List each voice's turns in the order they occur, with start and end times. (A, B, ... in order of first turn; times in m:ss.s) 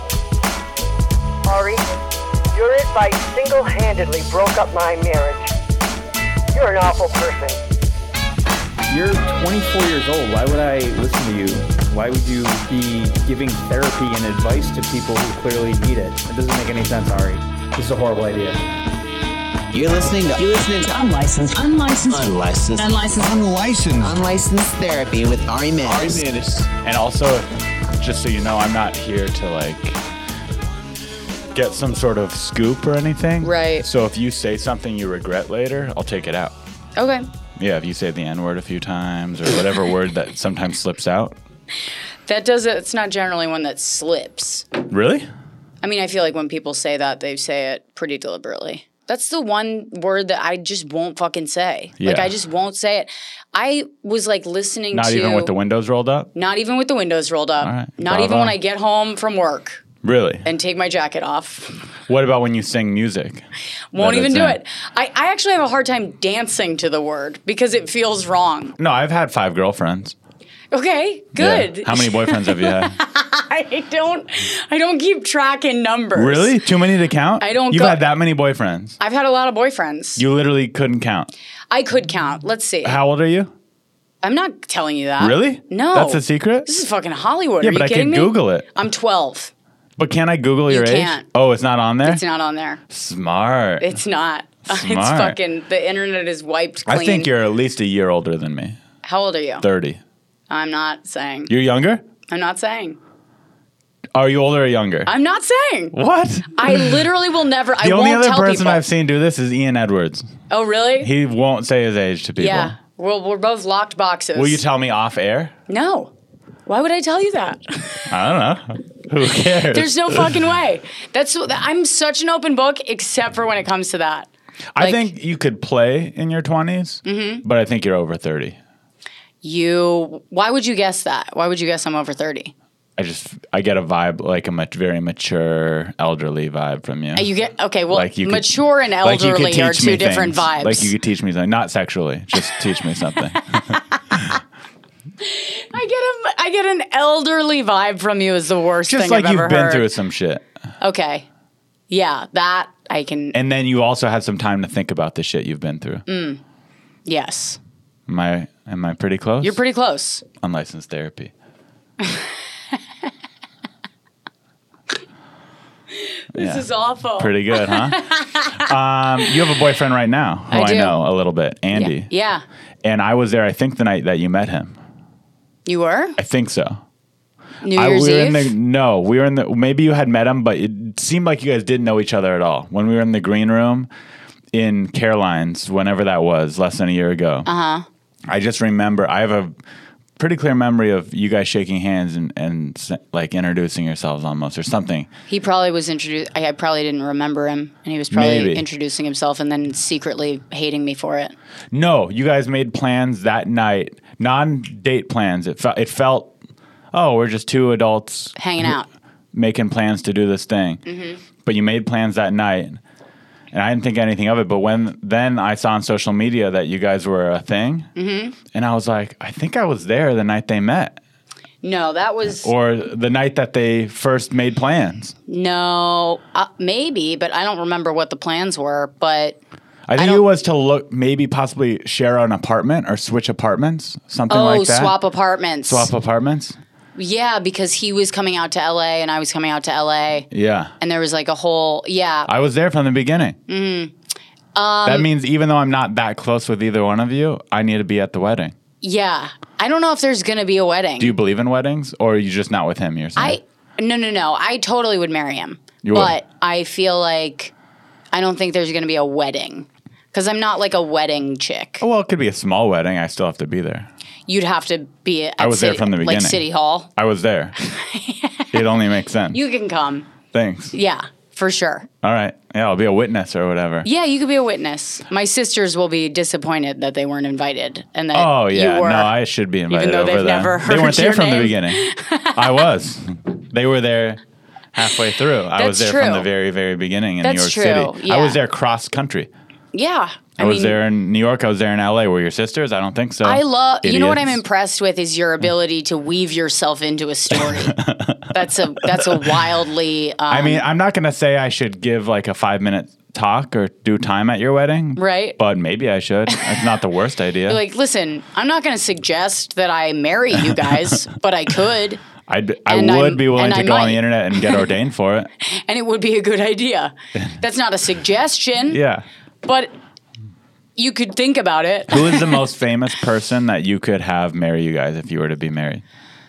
0:01.5-0:01.8 A
0:02.5-0:05.5 A
0:06.5-0:07.6 A
0:08.9-0:18.6 B
0:19.7-0:21.1 C
0:20.9-0:23.8 B
0:22.0-0:26.7 C
0:26.8-0:27.5 D
0:28.0-0:30.0 D
0:31.5-0:36.6 D
0:33.4-0:33.9 E
0:37.0-0:37.3 E
0:37.6-0:41.4 D
0:42.3-0:44.7 E
0:44.9-0:45.3 D
0:45.8-0:55.5 E
0:52.0-0:52.4 D
0:54.9-0:56.3 D
0:56.4-0:59.8 E
0:57.6-0:58.6 D
1:00.0-1:00.4 D
1:00.4-1:01.9 E
1:02.1-1:03.4 D
1:03.9-1:08.8 E
1:04.0-1:04.6 D
1:08.8-1:10.2 D
1:10.7-1:16.6 E
1:11.4-1:13.0 D
1:16.2-1:19.0 D
1:17.4-1:18.0 E
1:19.0-1:20.2 E
1:20.2-1:21.3 D
1:21.7-1:23.0 E
1:22.8-1:23.5 D
1:24.2-1:29.5 E
1:25.2-1:26.7 D
1:27.6-1:28.7 D
1:30.0-1:32.2 D
1:30.7-1:31.3 E
1:32.0-1:32.8 E
1:32.9-1:34.0 D
1:33.8-1:37.3 E
1:34.7-1:35.4 D
1:36.9-1:38.8 D
1:39.0-1:39.6 E
1:39.6-1:40.0 D
1:40.5-1:41.5 E
1:41.5-1:42.0 D
1:42.3-1:43.0 E
1:44.2-1:45.1 D
1:45.1-1:46.0 E
1:45.9-1:47.1 D
1:46.5-1:48.8 E
1:47.8-1:50.3 D
1:50.5-1:51.1 E
1:51.0-1:52.8 D
1:52.4-1:54.6 E
1:54.4-1:55.5 D
1:55.7-1:56.1 E
1:56.7-1:58.1 E
1:58.1-2:00.4 D
1:59.5-2:05.1 E
2:04.8-2:08.6 D
2:07.0-2:07.4 E
2:09.4-2:12.5 E
2:13.0-2:17.3 D
2:17.2-2:20.9 E
2:17.9-2:24.3 D
2:23.7-2:24.2 E
2:25.2-2:29.9 E
2:28.9-2:30.4 D
2:30.8-2:31.3 E
2:31.9-2:33.4 E
2:33.3-2:36.0 D
2:36.1-2:36.4 E
2:37.1-2:37.6 E
2:38.1-2:39.6 D
2:39.4-2:40.2 E
2:40.3-2:41.3 D
2:42.0-2:42.3 E
2:46.0-2:48.7 E
2:46.3-2:52.1 D
2:50.5-2:51.1 E
2:51.7-2:52.4 E
2:52.8-2:54.8 D
2:55.7-2:56.2 E
2:56.2-2:56.8 D
2:57.6-2:58.5 E
2:57.7-3:03.9 D
3:04.5-3:07.5 D
3:07.5-3:07.9 E
3:08.3-3:09.5 D
3:10.2-3:15.1 D
3:15.3-3:21.3 E
3:18.1-3:18.7 D
3:21.7-3:26.3 D
3:26.9-3:28.7 D
3:28.4-3:28.9 E
3:29.3-3:30.8 D
3:30.9-3:31.2 E
3:31.4-3:32.8 D
3:33.5-3:37.9 D
3:38.0-3:38.4 E
3:38.5-3:41.0 D
3:41.6-3:42.5 E
3:42.3-3:45.2 D
3:45.3-3:49.4 E
3:49.9-3:55.0 D
3:50.0-3:50.2 E
3:54.3-3:55.9 E
3:55.7-3:56.6 D
3:57.0-4:00.3 E
4:00.3-4:00.7 D
4:00.8-4:02.3 E
4:02.3-4:03.4 D
4:03.5-4:03.9 E
4:04.6-4:05.1 E
4:04.8-4:08.5 D
4:08.8-4:11.2 E
4:11.0-4:13.4 D
4:13.2-4:17.5 E
4:15.8-4:16.2 D
4:18.1-4:21.8 E
4:21.8-4:23.9 D
4:24.3-4:26.9 E
4:25.4-4:26.4 D
4:27.0-4:27.6 D
4:27.6-4:28.7 E
4:28.5-4:29.4 D
4:29.3-4:30.1 E
4:30.3-4:30.8 D
4:30.7-4:31.9 E
4:32.0-4:33.9 D
4:33.8-4:39.1 E
4:38.1-4:44.2 D
4:39.7-4:42.7 E
4:44.7-4:49.3 D
4:45.6-4:46.3 E
4:47.2-4:48.4 E
4:49.7-4:50.8 E
4:50.4-4:54.4 D
4:53.2-5:00.7 E
4:57.3-4:59.4 D
5:00.3-5:07.6 D
5:05.0-5:05.4 E
5:06.3-5:06.8 E
5:07.5-5:12.0 E
5:12.3-5:15.3 D
5:12.7-5:14.7 E
5:15.4-5:18.8 E
5:18.7-5:19.0 D
5:19.4-5:19.7 E
5:20.8-5:22.4 E
5:21.9-5:25.8 D